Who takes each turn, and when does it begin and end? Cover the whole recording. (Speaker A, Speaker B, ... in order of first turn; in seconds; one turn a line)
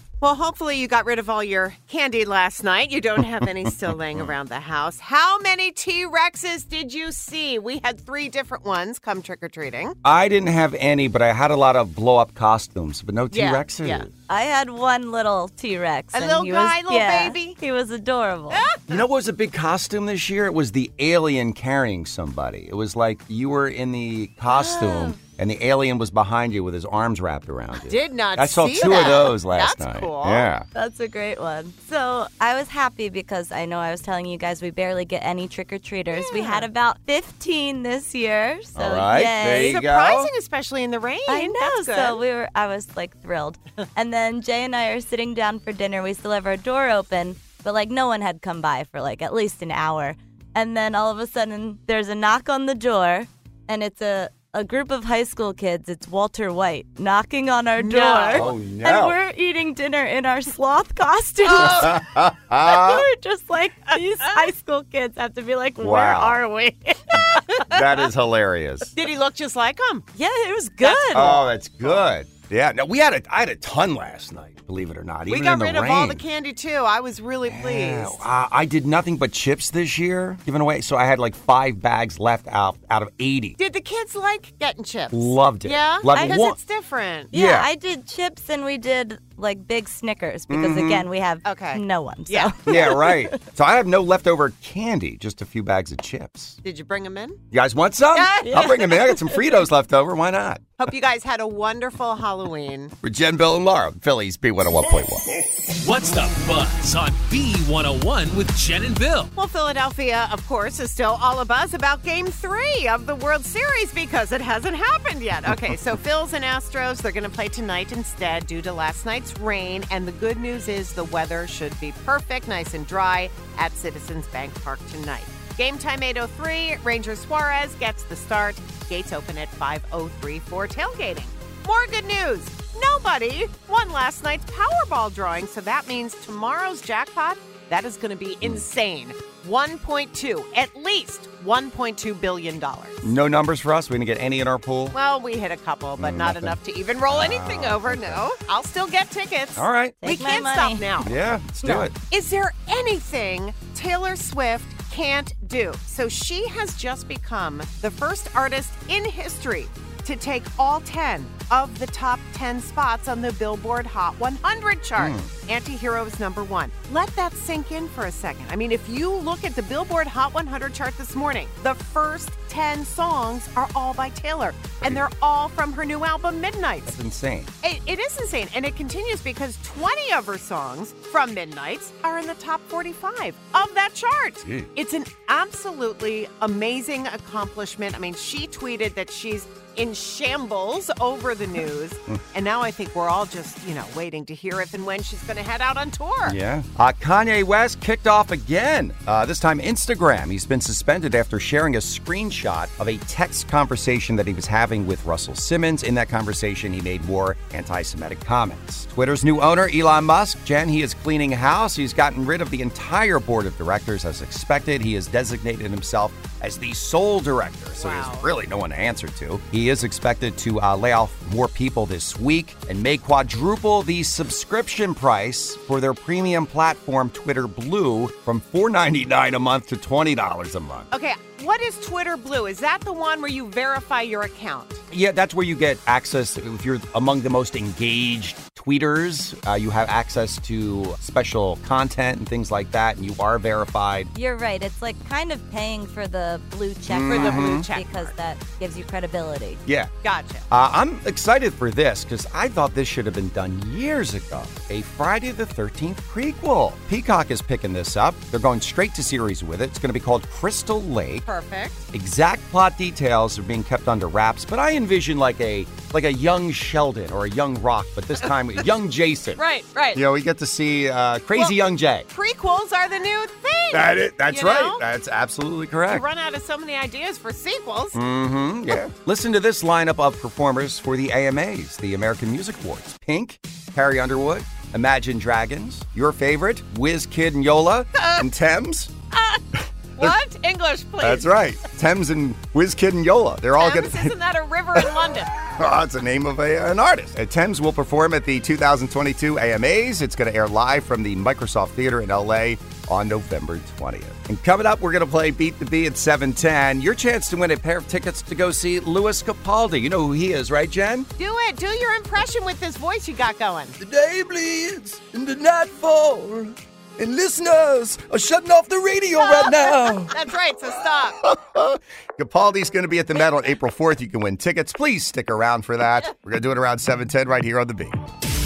Speaker A: 0.2-9.9
Speaker B: 10.0-14.1
Speaker A: 13.3-14.1
Speaker C: 14.3-18.7
Speaker A: 16.1-17.6
Speaker A: 18.5-19.1
Speaker B: 18.9-30.7
Speaker C: 24.5-25.3
Speaker A: 27.9-30.6
Speaker C: 30.7-39.8
Speaker A: 36.1-36.7
Speaker B: 38.8-40.3
Speaker A: 39.4-42.2
Speaker C: 41.3-61.9
Speaker A: 57.8-58.6
Speaker B: 58.3-59.2
Speaker A: 61.5-62.0
Speaker B: 61.6-63.0
Speaker C: 62.6-67.6
Speaker B: 65.8-66.4
Speaker B: 67.2-68.9
Speaker A: 69.0-70.1
Speaker C: 70.2-71.2
Speaker A: 70.8-72.1
Speaker B: 71.1-76.2
Speaker A: 75.2-78.2
Speaker B: 77.4-83.6
Speaker A: 83.6-87.3
Speaker B: 85.1-86.6
Speaker B: 87.3-87.7
Speaker C: 87.3-93.4
Speaker B: 90.5-91.1
Speaker A: 91.4-93.0
Speaker B: 92.7-96.6
Speaker A: 96.6-97.4
Speaker B: 97.5-100.7
Speaker A: 98.1-99.1
Speaker C: 98.4-99.4
Speaker A: 100.8-102.9
Speaker B: 103.0-105.3
Speaker D: 105.8-109.3
Speaker A: 109.3-143.2
Speaker B: 143.0-144.9
Speaker A: 144.9-151.2
Speaker B: 146.0-148.2
Speaker B: 149.6-150.0
Speaker C: 150.0-150.9
Speaker B: 150.9-151.9
Speaker A: 152.0-176.9
Speaker B: 165.0-165.3
Speaker B: 176.9-177.5
Speaker A: 177.6-196.4
Speaker B: 184.4-184.7
Speaker B: 196.2-230.9
Speaker A: 217.7-218.3
Speaker A: 230.9-234.8
Speaker B: 234.9-244.1
Speaker C: 244.2-249.6
Speaker B: 246.9-247.7
Speaker A: 247.1-248.1
Speaker B: 249.7-249.9
Speaker A: 250.0-250.4
Speaker B: 250.5-261.3
Speaker A: 261.3-261.8
Speaker B: 261.9-269.4
Speaker A: 269.3-270.0
Speaker B: 269.9-272.1
Speaker A: 271.3-274.8
Speaker B: 273.7-276.1
Speaker A: 275.9-278.0
Speaker B: 277.9-288.9
Speaker A: 288.0-288.3
Speaker A: 289.1-289.4
Speaker A: 290.0-291.4
Speaker B: 291.0-294.1
Speaker A: 293.6-295.4
Speaker B: 295.5-311.1
Speaker A: 311.2-313.8
Speaker B: 313.8-320.2
Speaker A: 319.1-321.2
Speaker B: 321.2-328.0